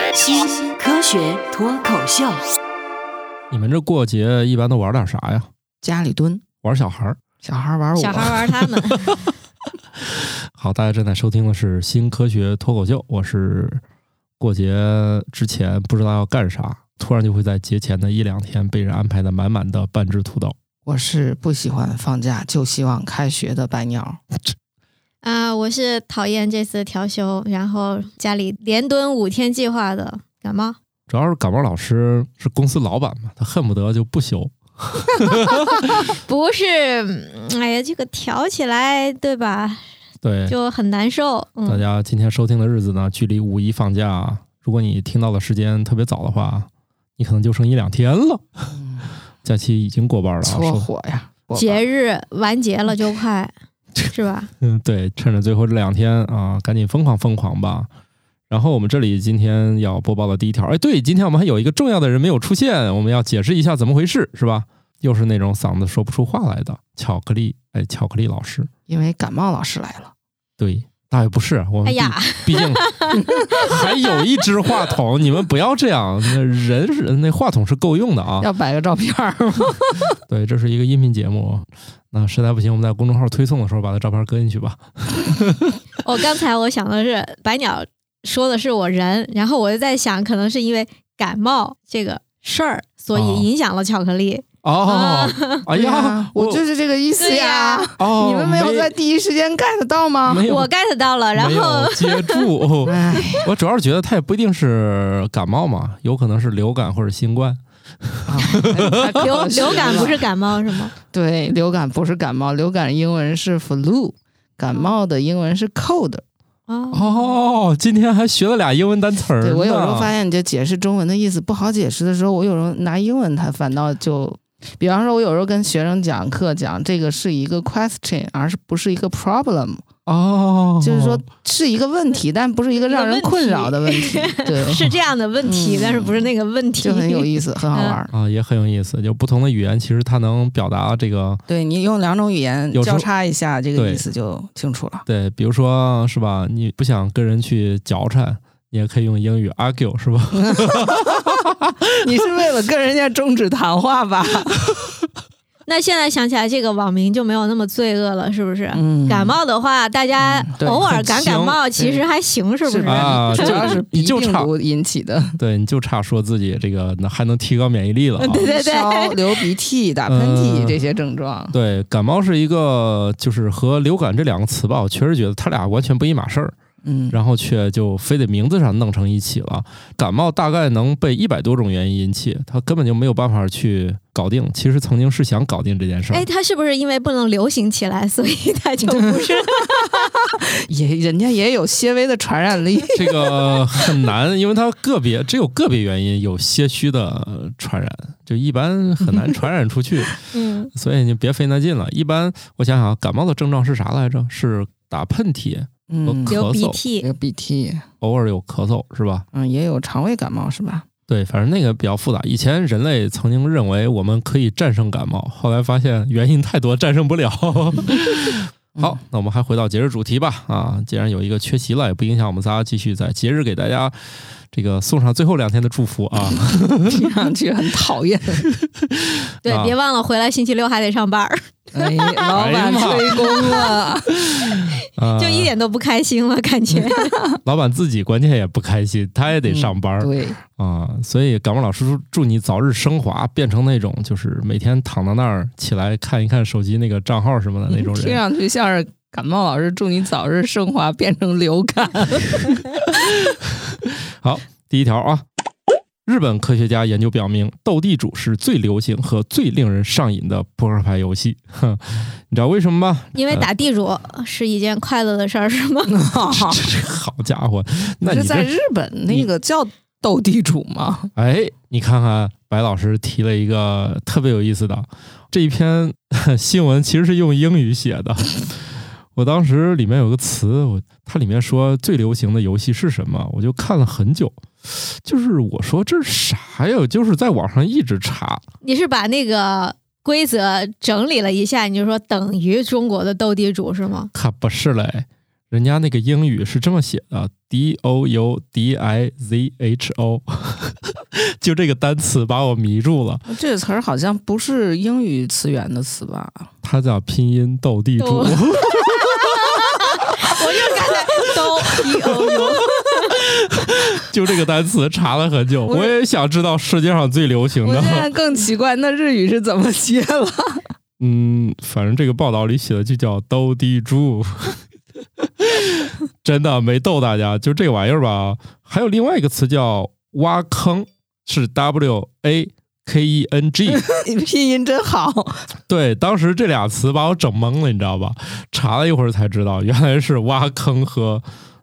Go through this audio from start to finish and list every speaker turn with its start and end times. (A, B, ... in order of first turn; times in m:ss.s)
0:00.1-0:02.5 A
0:03.5-0:05.5 B
0:05.8-0:06.4 C
0:06.6-0:07.2 B
0:07.4-0:08.5 C
0:08.0-0:09.2 D
0:10.6-0:13.8 B
0:14.4-0:20.6 B
0:20.9-0:24.2 C
0:25.2-0:30.8 D
0:31.1-0:35.9 B
0:36.1-0:39.8 D
0:40.2-0:40.6 B
0:40.5-0:41.8 D
0:41.7-0:48.7 B
0:48.7-0:49.1 C
0:49.4-0:50.9 B
0:50.4-0:51.8 C
0:51.5-0:53.5 D
0:54.1-0:54.5 D
0:54.6-0:57.9 B
0:58.5-1:08.7 B
1:08.9-1:10.1 C
1:10.6-1:12.8 B
1:11.8-1:14.1 D
1:13.2-1:13.5 C
1:13.5-1:18.5 B
1:18.4-1:20.1 C
1:20.3-1:25.7 B
1:26.0-1:35.6 D
1:33.1-1:33.5 B
1:34.6-1:36.6 B
1:35.7-1:40.5 C
1:37.2-1:37.9 D
1:38.0-1:38.9 B
1:40.3-1:40.7 B
1:40.5-1:42.4 D
1:41.4-1:50.2 B
1:42.8-1:43.5 C
1:48.3-1:50.3 C
1:49.1-1:50.9 D
1:51.1-1:56.2 C
1:56.7-1:57.2 D
1:56.9-2:00.1 B
1:59.4-2:09.9 C
2:10.1-2:11.2 B
2:10.8-2:16.3 C
2:12.9-2:18.0 D
2:16.8-2:18.1 C
2:18.1-2:21.4 B
2:21.5-2:25.0 C
2:22.7-2:23.1 B
2:23.8-2:24.0 B
2:25.1-2:31.2 B
2:30.4-2:34.6 C
2:35.7-2:43.8 D
2:38.7-2:39.4 C
2:40.2-2:40.9 C
2:40.9-2:41.6 B
2:41.8-2:42.0 C
2:42.7-2:45.4 C
2:42.9-2:44.5 B
2:45.4-2:48.4 B
2:48.2-2:49.3 D
2:48.3-2:51.6 C
2:50.1-2:50.8 B
2:51.5-2:56.6 B
2:56.8-2:57.2 C
2:57.1-3:06.2 B
3:06.1-3:10.1 D
3:08.8-3:13.9 C
3:12.9-3:20.2 B
3:20.3-3:20.7 D
3:20.7-3:26.8 B
3:25.9-3:26.4 C
3:26.3-3:27.1 D
3:27.0-3:27.8 C
3:28.0-3:29.2 B
3:29.3-3:30.9 C
3:31.1-3:44.0 B
3:44.5-3:47.0 B
3:46.9-3:48.4 C
3:48.6-3:49.7 B
3:49.4-3:52.4 D
3:51.7-3:54.1 C
3:52.3-3:53.4 B
3:53.2-3:53.8 D
3:54.2-3:55.5 B
3:55.2-3:57.2 D
3:56.7-3:57.4 C
3:57.4-4:08.2 B
3:59.4-4:00.4 C
4:07.7-4:12.6 C
4:12.9-4:15.2 B
4:16.0-4:23.5 B
4:23.2-4:26.0 D
4:25.9-4:26.6 C
4:26.3-4:28.5 B
4:28.0-4:31.1 C
4:31.2-4:48.4 B
4:48.6-4:54.1 D
4:54.1-5:03.2 B
5:03.3-5:06.5 C
5:06.6-5:09.5 B
5:08.0-5:13.2 D
5:10.2-5:11.0 C
5:11.8-5:12.5 C
5:12.4-5:18.1 B
5:15.7-5:16.0 C
5:17.6-5:20.6 C
5:21.0-5:24.6 B
5:25.2-5:33.9 B
5:33.8-5:35.5 C
5:35.7-5:41.2 B